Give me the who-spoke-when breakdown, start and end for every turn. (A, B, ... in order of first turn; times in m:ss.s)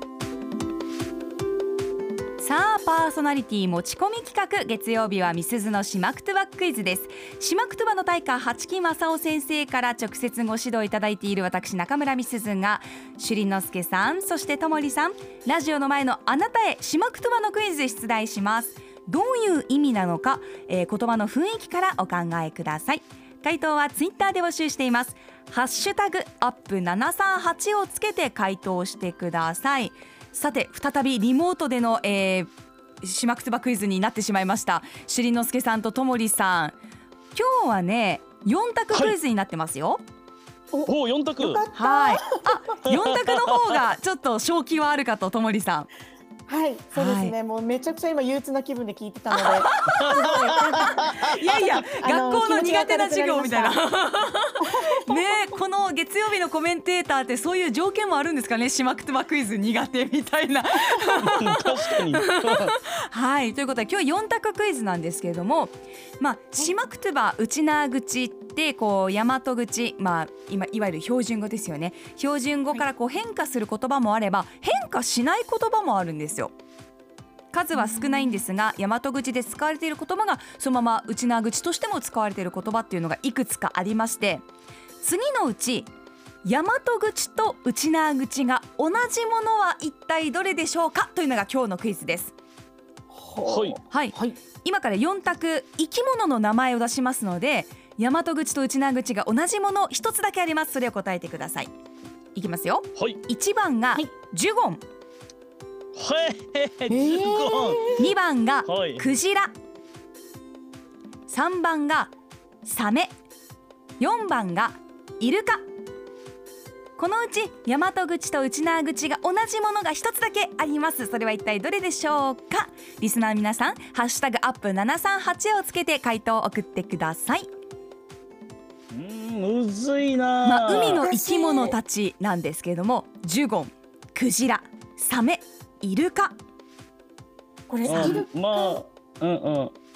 0:02.4-0:32.5 A
0:33.0-0:36.8 A
0:37.3-0:40.0 A
0:38.9-0:39.2 B
0:40.7-0:42.6 C
0:40.9-0:41.6 B
0:41.7-0:45.9 A
0:42.9-0:43.8 B
0:46.5-0:53.8 C
0:46.9-0:47.3 A
0:49.3-1:16.5 A
0:49.9-0:50.4 B
0:54.6-0:55.4 C
1:01.2-1:02.7 B
1:17.5-1:24.4 A
1:17.7-1:18.4 C
1:25.0-1:25.9 A
1:26.4-1:32.3 A
1:33.1-1:34.4 C
1:33.4-1:33.8 B
1:33.9-1:41.7 A
1:42.3-1:44.8 A
1:45.9-1:47.8 B
1:46.9-1:48.1 C
1:48.0-1:49.5 A
1:48.6-1:49.1 B
1:51.3-1:52.1 A
1:52.6-1:53.1 A
1:54.0-1:55.6 A
1:57.0-2:07.5 A
2:08.9-2:11.0 B
2:10.4-2:16.4 A
2:11.0-2:11.8 C
2:17.7-2:18.8 C
2:17.8-2:19.7 B
2:17.9-2:18.2 A